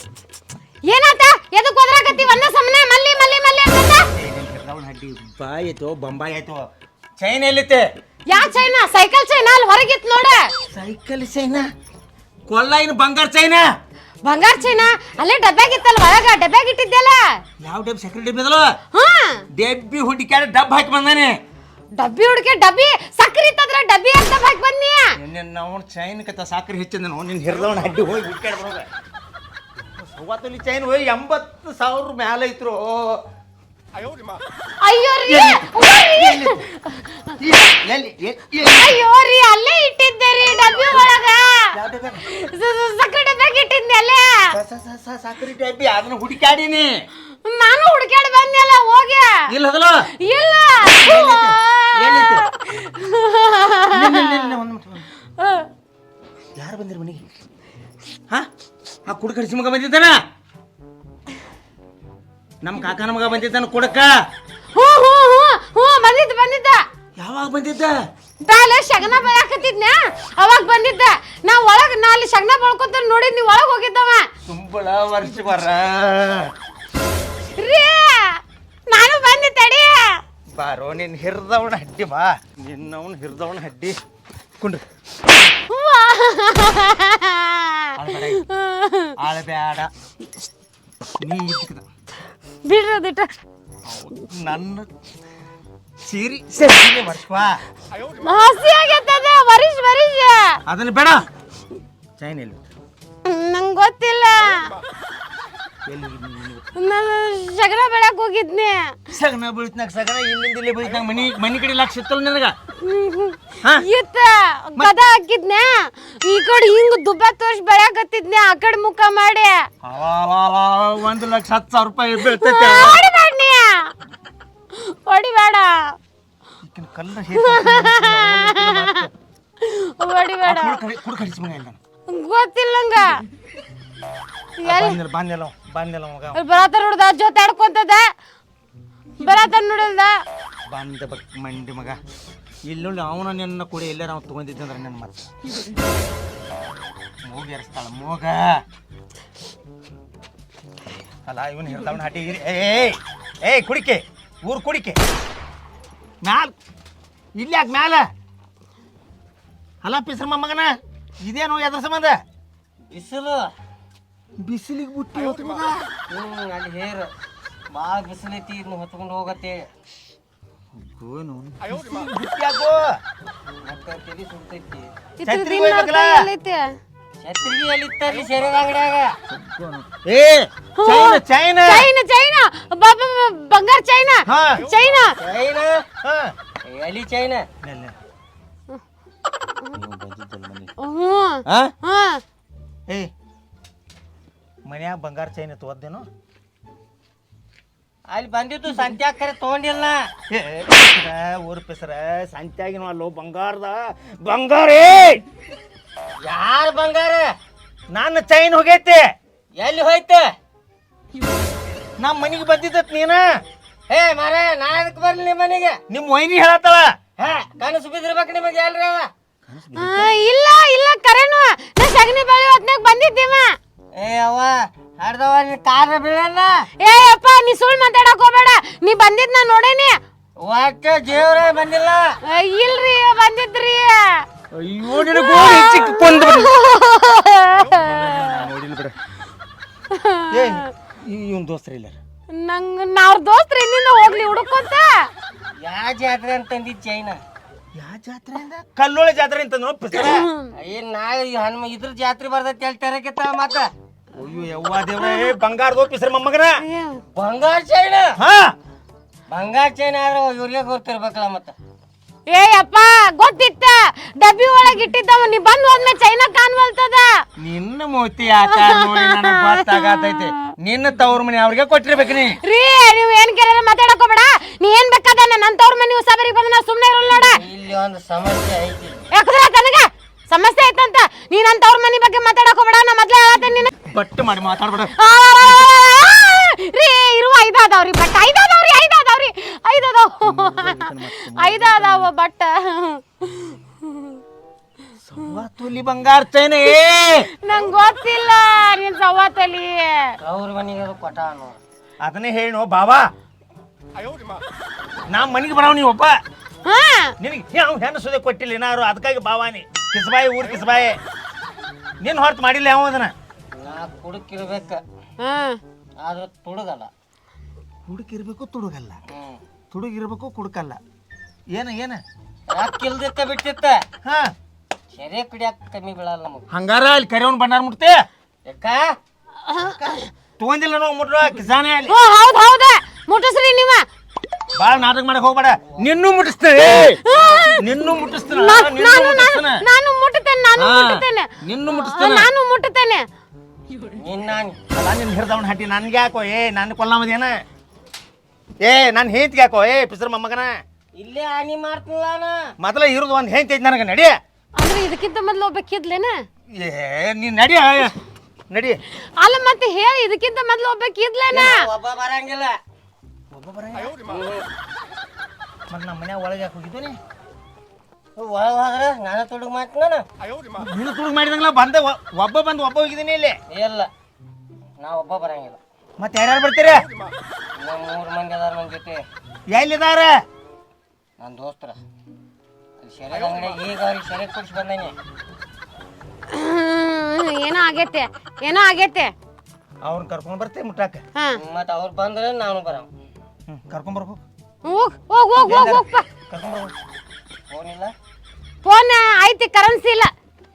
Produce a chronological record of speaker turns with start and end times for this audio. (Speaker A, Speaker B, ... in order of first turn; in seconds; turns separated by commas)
Speaker A: 0.8-4.1, Speaker B: 4.1-7.9, Speaker A: 8.2-10.5, Speaker B: 10.7-11.7, Speaker B: 12.5-13.7, Speaker A: 14.2-17.4, Speaker B: 17.6-18.8, Speaker A: 18.9-19.4, Speaker B: 19.5-21.4, Speaker A: 21.9-25.2, Speaker B: 25.1-28.9, Speaker B: 29.9-33.2, Speaker A: 34.8-37.3, Speaker B: 35.3-36.6, Speaker B: 37.4-39.0, Speaker A: 38.7-41.7, Speaker B: 40.6-41.2, Speaker B: 41.7-42.2, Speaker A: 42.2-44.6, Speaker B: 44.5-47.0, Speaker A: 47.4-49.5, Speaker B: 49.5-50.1, Speaker A: 50.2-54.6, Speaker B: 51.0-52.4, Speaker B: 53.9-55.1, Speaker A: 55.4-55.7, Speaker B: 56.5-57.2, Speaker B: 59.0-60.2, Speaker B: 62.6-64.1, Speaker A: 64.7-66.8, Speaker B: 67.2-67.9, Speaker A: 68.4-74.3, Speaker B: 74.5-76.5, Speaker A: 77.5-80.2, Speaker B: 80.5-84.0, Speaker A: 85.5-89.1, Speaker B: 88.0-88.4, Speaker B: 89.2-89.9, Speaker B: 91.2-91.8, Speaker A: 92.6-93.3, Speaker B: 93.8-94.9, Speaker B: 96.0-97.6, Speaker A: 98.2-100.6, Speaker B: 100.7-101.3, Speaker B: 102.2-102.6, Speaker A: 103.2-104.8, Speaker B: 105.8-106.6, Speaker A: 106.7-109.0, Speaker B: 109.1-112.5, Speaker A: 112.8-119.7, Speaker B: 119.8-123.0, Speaker A: 122.2-123.9, Speaker A: 124.7-126.0, Speaker B: 126.6-129.1, Speaker A: 127.3-129.1, Speaker A: 129.6-130.8, Speaker B: 130.4-131.8, Speaker A: 132.1-133.2, Speaker A: 134.6-135.0, Speaker B: 134.6-136.4, Speaker A: 136.3-138.1, Speaker A: 139.2-140.2, Speaker B: 140.7-142.0, Speaker B: 142.6-145.3, Speaker B: 147.2-148.6, Speaker B: 151.2-155.0, Speaker B: 156.2-156.5, Speaker B: 157.3-158.1, Speaker B: 159.8-162.2, Speaker C: 162.9-163.5, Speaker B: 164.4-165.9, Speaker C: 166.1-167.1, Speaker C: 167.7-169.7, Speaker B: 170.8-173.0, Speaker C: 173.6-174.9, Speaker A: 175.2-176.7, Speaker B: 175.2-176.3, Speaker C: 177.2-179.2, Speaker B: 179.3-181.9, Speaker A: 180.8-185.1, Speaker B: 184.2-184.6, Speaker C: 185.2-185.8, Speaker B: 186.0-186.3, Speaker C: 186.6-187.5, Speaker B: 187.6-187.9, Speaker B: 189.7-190.7, Speaker A: 190.8-192.2, Speaker B: 191.4-191.7, Speaker B: 194.7-196.1, Speaker C: 198.1-200.1, Speaker B: 200.3-205.2, Speaker C: 206.2-207.3, Speaker B: 207.9-209.1, Speaker C: 209.6-210.3, Speaker B: 212.0-213.2, Speaker C: 213.9-215.8, Speaker B: 215.9-216.9, Speaker C: 217.2-219.1, Speaker B: 219.4-220.1, Speaker A: 219.7-223.6, Speaker C: 223.9-226.7, Speaker A: 226.8-229.9, Speaker C: 230.4-232.1, Speaker A: 232.2-234.2, Speaker B: 234.5-236.5, Speaker A: 234.9-238.5, Speaker B: 237.7-238.9, Speaker A: 239.9-240.7, Speaker B: 240.3-242.0, Speaker A: 242.3-245.1, Speaker C: 245.6-247.2, Speaker B: 247.7-250.3, Speaker A: 249.9-250.5, Speaker C: 250.6-253.7, Speaker B: 254.1-256.6, Speaker A: 256.6-257.0, Speaker C: 257.1-258.2, Speaker B: 258.2-258.6, Speaker C: 259.3-261.5, Speaker A: 262.3-267.2, Speaker B: 267.4-272.4, Speaker A: 268.5-270.3, Speaker A: 272.4-277.4, Speaker C: 277.3-279.0, Speaker A: 279.1-283.7, Speaker B: 283.9-284.9, Speaker A: 284.9-294.2, Speaker B: 290.2-292.1, Speaker B: 295.1-297.3, Speaker A: 296.7-300.1, Speaker C: 300.2-301.6, Speaker B: 302.0-303.1, Speaker B: 305.1-306.2, Speaker A: 306.6-307.1, Speaker B: 307.2-311.0, Speaker B: 312.0-313.1, Speaker C: 313.5-314.8, Speaker A: 315.2-315.6, Speaker C: 316.0-316.9, Speaker B: 317.9-319.0, Speaker C: 319.1-319.4, Speaker B: 319.7-320.8, Speaker B: 321.5-322.0, Speaker C: 322.5-323.8, Speaker B: 324.0-324.3, Speaker C: 324.9-326.4, Speaker B: 326.5-328.1, Speaker C: 328.5-328.9, Speaker B: 330.4-331.9, Speaker A: 331.9-333.9, Speaker B: 334.6-339.6, Speaker A: 337.0-337.6, Speaker C: 337.2-337.4, Speaker A: 338.3-343.1, Speaker B: 340.6-342.3, Speaker C: 343.9-344.6, Speaker B: 344.7-347.4, Speaker B: 348.6-350.6, Speaker C: 350.9-352.5, Speaker B: 352.6-354.1, Speaker A: 354.6-356.2, Speaker B: 356.5-358.0, Speaker B: 358.5-358.8, Speaker A: 359.0-361.6, Speaker C: 361.3-362.6, Speaker B: 363.3-364.0, Speaker C: 364.1-364.5, Speaker B: 365.7-367.0, Speaker C: 368.2-370.0, Speaker B: 370.5-373.4, Speaker C: 373.5-373.9, Speaker C: 374.8-375.6, Speaker B: 376.0-376.9, Speaker C: 377.6-379.1, Speaker B: 379.5-380.1, Speaker C: 381.2-381.8, Speaker C: 382.8-384.9, Speaker B: 383.1-383.6, Speaker A: 386.3-389.1, Speaker B: 389.8-391.0, Speaker C: 391.4-392.9, Speaker B: 393.5-394.2, Speaker A: 394.6-396.1, Speaker B: 395.4-396.7, Speaker C: 397.5-397.9, Speaker A: 398.6-400.1